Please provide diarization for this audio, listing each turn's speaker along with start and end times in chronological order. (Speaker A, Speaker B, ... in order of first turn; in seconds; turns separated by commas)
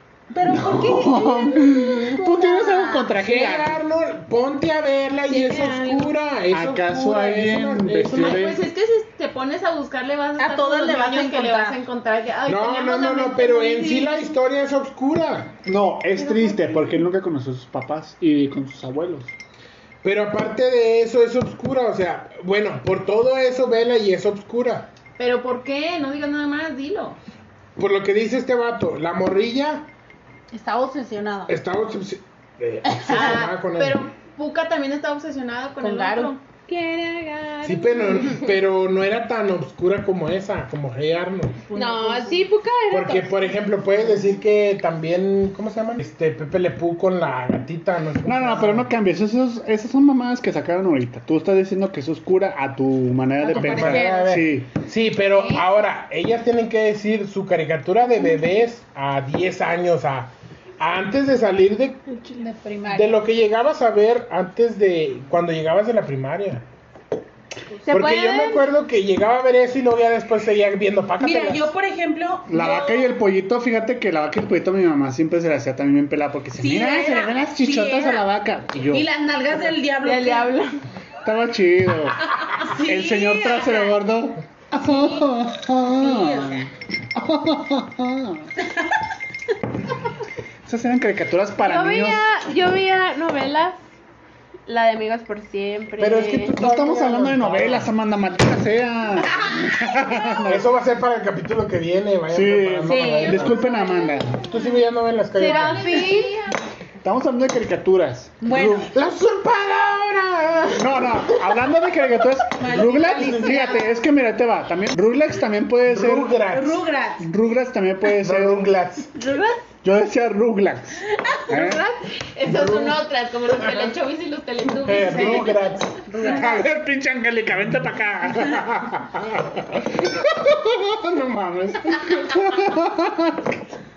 Speaker A: 0.3-3.1, Speaker B: 0.5-3.8, Speaker C: 3.1-8.5, Speaker D: 5.3-6.1, Speaker B: 6.5-8.7, Speaker E: 8.1-13.2, Speaker A: 10.4-11.8, Speaker C: 12.4-15.6, Speaker D: 12.6-14.3, Speaker B: 15.6-19.3, Speaker D: 16.2-16.9, Speaker C: 20.0-24.9, Speaker E: 25.2-27.2, Speaker C: 27.8-29.9, Speaker A: 30.5-31.6, Speaker C: 31.5-34.0, Speaker A: 32.9-33.4, Speaker E: 33.1-36.4, Speaker A: 35.8-36.4, Speaker D: 36.6-38.5, Speaker C: 37.6-41.6, Speaker E: 41.7-42.5, Speaker D: 41.7-43.5, Speaker C: 42.9-48.9, Speaker B: 48.2-54.7, Speaker A: 53.4-54.3, Speaker C: 53.5-62.0, Speaker A: 55.4-55.7, Speaker A: 62.3-63.2, Speaker C: 62.9-66.6, Speaker D: 67.8-68.7, Speaker C: 67.9-71.7, Speaker A: 71.2-73.2, Speaker B: 72.5-79.1, Speaker A: 76.6-78.3, Speaker A: 78.9-80.6, Speaker D: 80.0-80.8, Speaker B: 81.2-88.5, Speaker A: 82.5-83.9, Speaker A: 84.8-85.2, Speaker A: 86.0-86.7, Speaker B: 90.7-92.3, Speaker D: 91.6-93.8, Speaker D: 94.7-96.9, Speaker C: 96.0-97.9, Speaker B: 96.5-100.6, Speaker C: 100.5-103.7, Speaker B: 102.3-104.5, Speaker A: 102.8-104.2, Speaker C: 104.4-106.1, Speaker D: 105.3-106.4, Speaker E: 105.4-106.5, Speaker A: 105.7-106.3, Speaker B: 107.0-108.9, Speaker A: 108.4-108.9, Speaker C: 108.9-111.3, Speaker B: 110.8-116.3, Speaker A: 112.6-113.9, Speaker C: 115.8-116.8, Speaker A: 116.5-117.3, Speaker B: 117.2-118.7, Speaker C: 118.2-119.1, Speaker D: 119.2-119.6, Speaker B: 119.8-121.8, Speaker D: 121.5-121.9, Speaker E: 122.3-125.6, Speaker C: 122.5-123.0, Speaker C: 123.6-123.9, Speaker C: 124.8-125.9, Speaker A: 125.0-126.7, Speaker D: 125.1-125.4, Speaker B: 126.2-133.6